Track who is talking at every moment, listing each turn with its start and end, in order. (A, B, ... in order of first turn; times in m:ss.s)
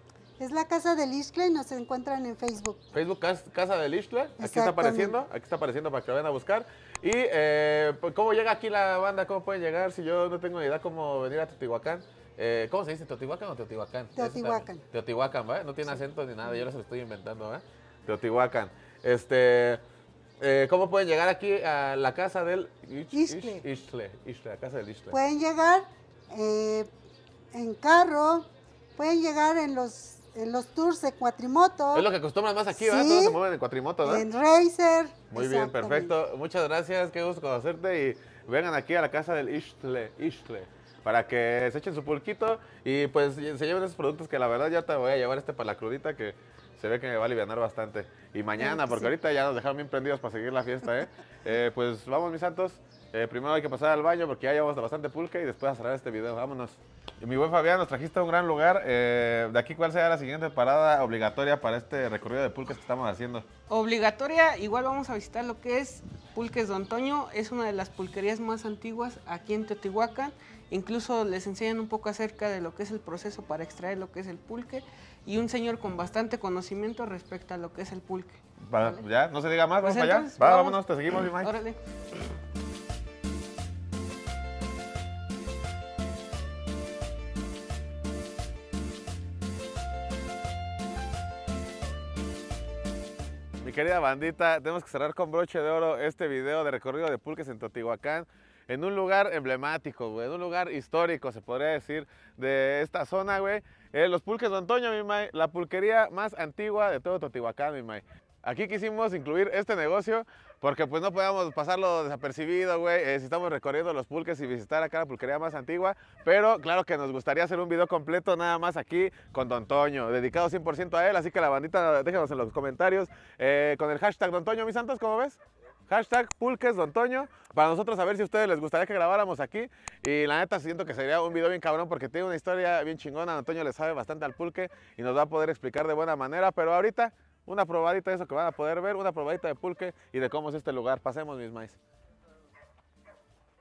0:00.4-0:02.8 A
0:02.9-0:19.8 B
0:04.4-0:05.2 A
0:14.2-0:14.8 A
0:20.4-0:25.1 B
0:23.1-0:23.6 A
0:25.1-0:26.9 A
0:27.5-0:32.1 A
0:31.9-0:34.2 B
0:32.8-0:33.4 A
0:34.0-0:36.1 A
0:35.3-1:03.4 B
0:48.6-0:49.1 A
1:03.7-1:19.0 C
1:18.6-1:21.5 B
1:19.8-1:21.8 C
1:33.6-2:21.8 B